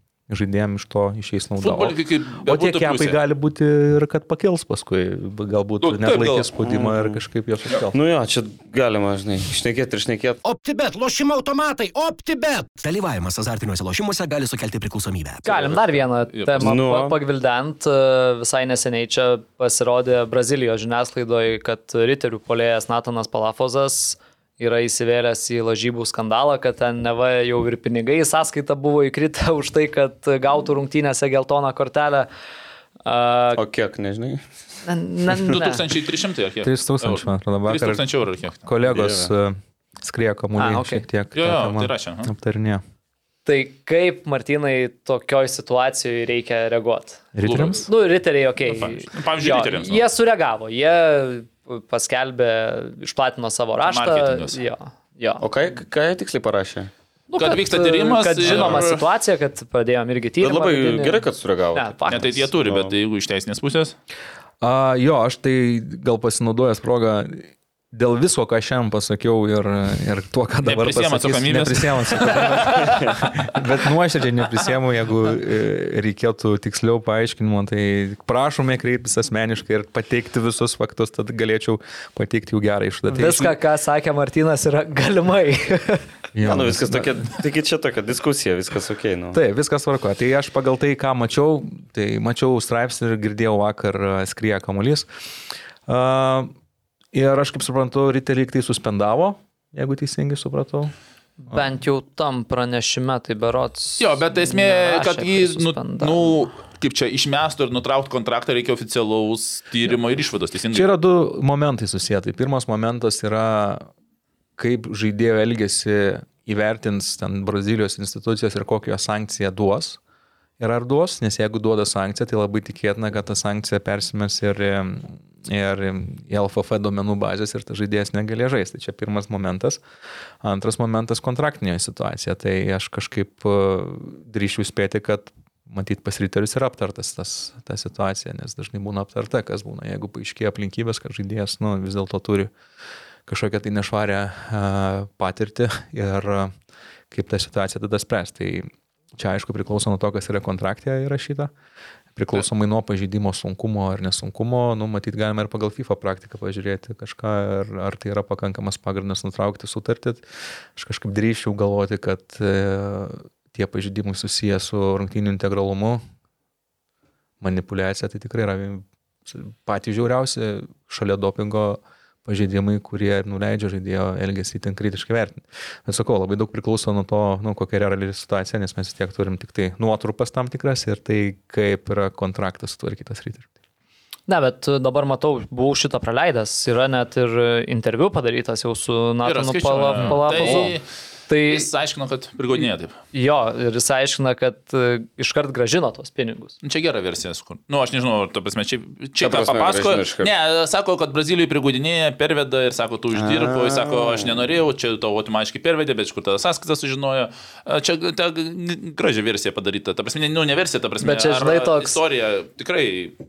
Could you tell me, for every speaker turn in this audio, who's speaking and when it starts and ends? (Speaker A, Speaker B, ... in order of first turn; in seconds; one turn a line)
Speaker A: 0.3-8.0
Speaker B: 1.6-3.2
Speaker B: 5.8-6.5
Speaker C: 6.6-7.2
Speaker C: 7.9-10.4
Speaker D: 10.4-12.8
Speaker E: 12.8-15.4
Speaker F: 15.4-32.3
Speaker B: 15.5-16.7
Speaker C: 16.6-17.2
Speaker F: 33.0-33.6
Speaker C: 33.5-34.8
Speaker F: 34.8-35.8
Speaker B: 35.5-38.7
Speaker A: 36.6-38.0
Speaker A: 38.6-42.8
Speaker C: 38.9-39.3
Speaker F: 40.5-41.0
Speaker B: 41.3-42.3
Speaker F: 43.5-55.4
Speaker A: 47.3-47.9
Speaker B: 47.4-47.9
Speaker B: 48.6-50.0
Speaker B: 53.8-54.6
Speaker C: 55.4-56.9
Speaker F: 57.3-62.5
Speaker B: 57.4-59.0
Speaker C: 60.4-62.9
Speaker B: 62.1-64.0
Speaker A: 64.6-83.5
Speaker B: 70.6-73.0
Speaker F: 83.1-86.1
Speaker A: 86.3-87.2
Speaker C: 86.4-89.4
Speaker A: 89.3-95.1
Speaker A: 95.8-96.5
Speaker A: 97.1-100.9
Speaker F: 101.4-106.2
Speaker B: 104.0-110.9
Speaker A: 110.7-113.9
Speaker A: 114.6-120.0
Speaker A: 120.6-129.8
Speaker A: 130.4-142.5
Speaker A: 143.3-146.5
Speaker A: 147.1-151.5
Speaker A: 152.2-166.0
Speaker A: 167.4-183.5
Speaker F: 184.3-190.7
Speaker B: 189.2-192.9
Speaker C: 190.4-190.7
Speaker F: 191.3-191.7
Speaker F: 193.1-196.5
Speaker B: 196.6-213.2
Speaker C: 199.2-200.3
Speaker C: 203.1-204.3
Speaker F: 211.0-212.0